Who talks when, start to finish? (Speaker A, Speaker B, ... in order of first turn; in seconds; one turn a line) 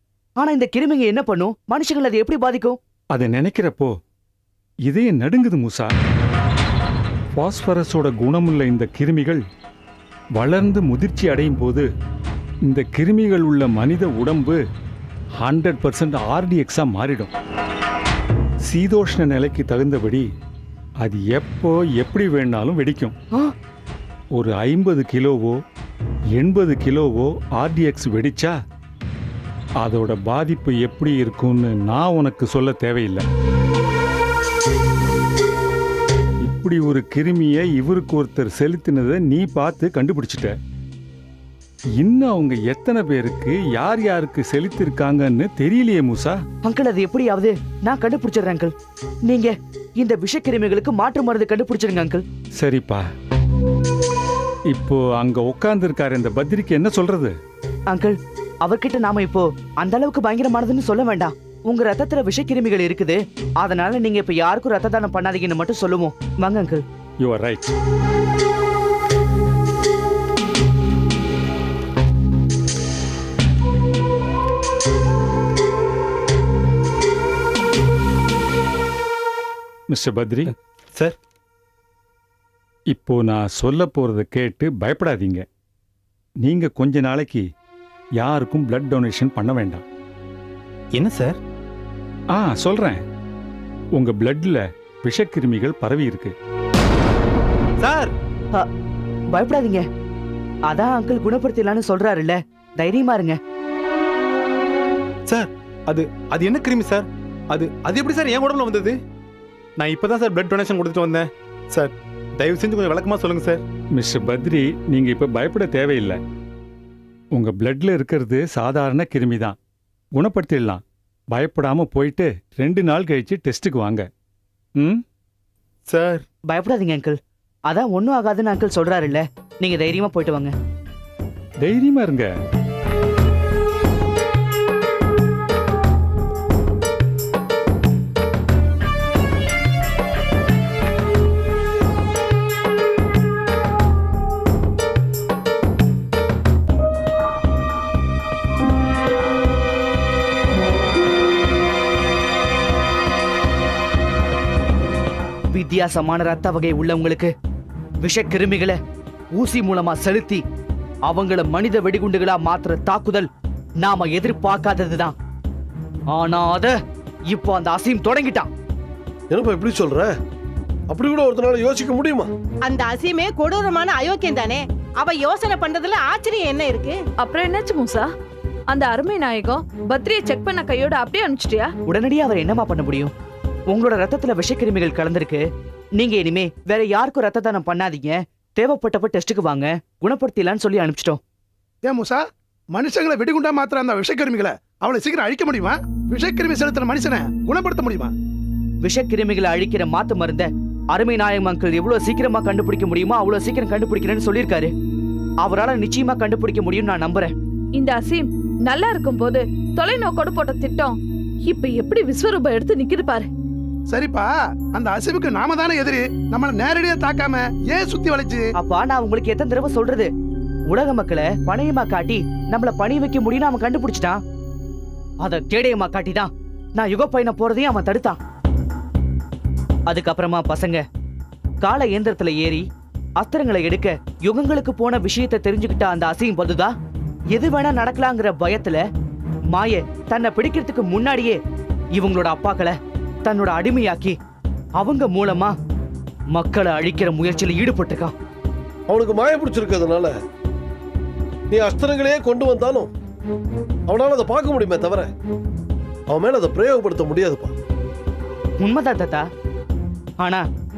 Speaker A: 0.4-2.8
Speaker B: 3.1-3.9
Speaker B: 4.9-5.9
Speaker B: 7.4-9.4
Speaker B: 10.4-11.8
Speaker B: 12.7-14.6
Speaker B: 15.4-17.3
Speaker B: 18.6-20.2
Speaker B: 21.0-23.1
Speaker B: 24.3-25.6
Speaker B: 26.4-28.6
Speaker B: 29.8-33.2
Speaker B: 36.4-40.5
Speaker B: 42.0-46.4
Speaker A: 46.6-48.7
Speaker A: 49.2-52.2
Speaker B: 52.6-53.0
Speaker B: 54.7-57.3
Speaker A: 57.9-66.8
Speaker B: 67.2-67.7
Speaker B: 79.9-80.5
Speaker C: 80.5-81.2
Speaker B: 82.9-85.4
Speaker B: 86.4-87.4
Speaker B: 88.2-89.8
Speaker C: 90.9-91.4
Speaker B: 92.3-93.0
Speaker B: 94.0-96.3
Speaker C: 97.8-98.1
Speaker A: 99.3-99.8
Speaker A: 100.7-103.4
Speaker C: 105.3-109.0
Speaker C: 109.8-113.6
Speaker B: 113.9-116.2
Speaker B: 117.3-119.5
Speaker B: 120.2-124.0
Speaker C: 125.9-126.2
Speaker A: 126.5-127.2
Speaker A: 127.7-130.5
Speaker B: 131.6-132.3
Speaker A: 155.5-157.3
Speaker A: 158.0-158.8
Speaker A: 159.3-160.4
Speaker A: 161.1-163.3
Speaker A: 163.8-165.1
Speaker A: 166.1-166.8
Speaker A: 167.3-168.5
Speaker D: 169.3-170.1
Speaker D: 170.9-172.3
Speaker E: 172.6-177.0
Speaker F: 177.2-178.1
Speaker F: 178.7-181.7
Speaker A: 181.9-183.1
Speaker A: 183.7-185.4
Speaker A: 186.0-191.2
Speaker G: 191.8-192.2
Speaker G: 192.7-198.1
Speaker A: 198.8-204.7
Speaker A: 205.4-207.3
Speaker F: 207.7-213.3
Speaker G: 213.9-218.4
Speaker A: 218.5-220.1
Speaker A: 220.7-224.2
Speaker A: 225.2-228.2
Speaker A: 229.9-230.8
Speaker A: 231.6-232.6
Speaker A: 233.2-236.7
Speaker A: 237.3-238.8
Speaker A: 239.5-241.4
Speaker A: 241.9-244.2
Speaker A: 244.8-245.5
Speaker A: 246.3-248.1
Speaker D: 248.9-250.1
Speaker D: 251.5-252.9
Speaker D: 253.9-255.1
Speaker D: 256.1-257.5
Speaker A: 258.6-259.2